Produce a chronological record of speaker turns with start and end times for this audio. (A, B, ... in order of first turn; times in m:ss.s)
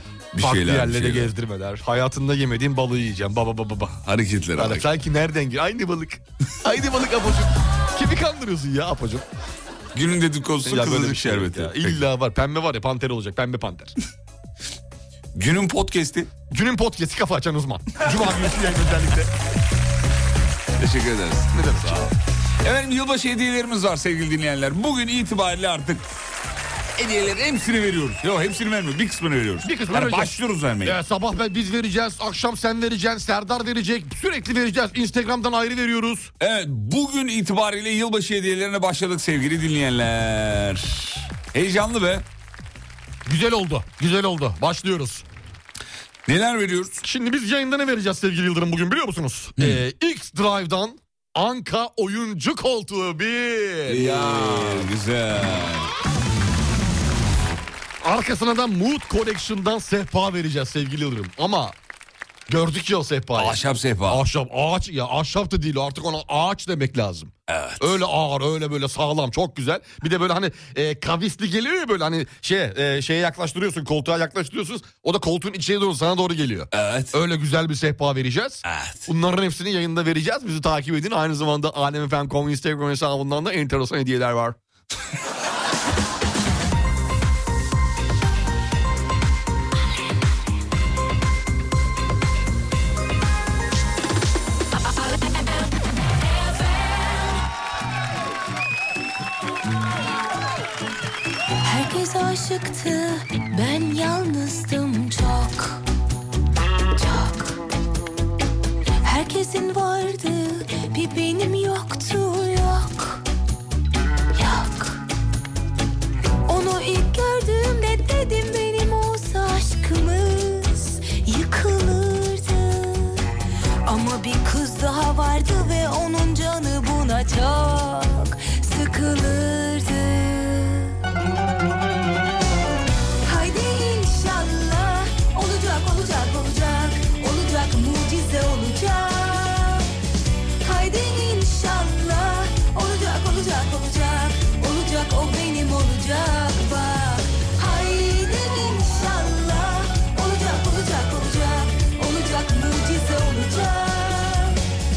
0:00.3-0:01.3 A
0:00.4-0:04.0 B
0:04.0-0:04.8 A
0:04.6-0:09.2 B
0:09.9-0:12.0 A
0:10.6-0:13.9 B
0:15.3-0:16.3 A
0:16.5-0:19.3 B
0:20.8-0:26.0 A
0:21.5-0:22.1 B
0:27.0-0:31.0 A
0:29.6-0:36.3 B
0:36.4-0:42.2 A
0:43.2-0:45.2 B
0:46.2-0:47.0 A
0:47.0-0:54.9 B
0:53.9-0:55.9 A
0:58.0-1:01.8 B
1:02.5-1:24.6 B
1:03.3-1:04.2 A
1:07.5-1:08.0 A
1:16.7-1:17.1 A
1:18.6-1:19.1 A
1:41.6-1:45.8 C
1:46.9-1:47.6 C
1:49.0-1:53.2 C
1:54.3-1:55.0 C
1:56.4-2:03.2 C
2:03.8-2:11.0 C
2:13.2-2:19.9 C
2:20.6-2:34.6 C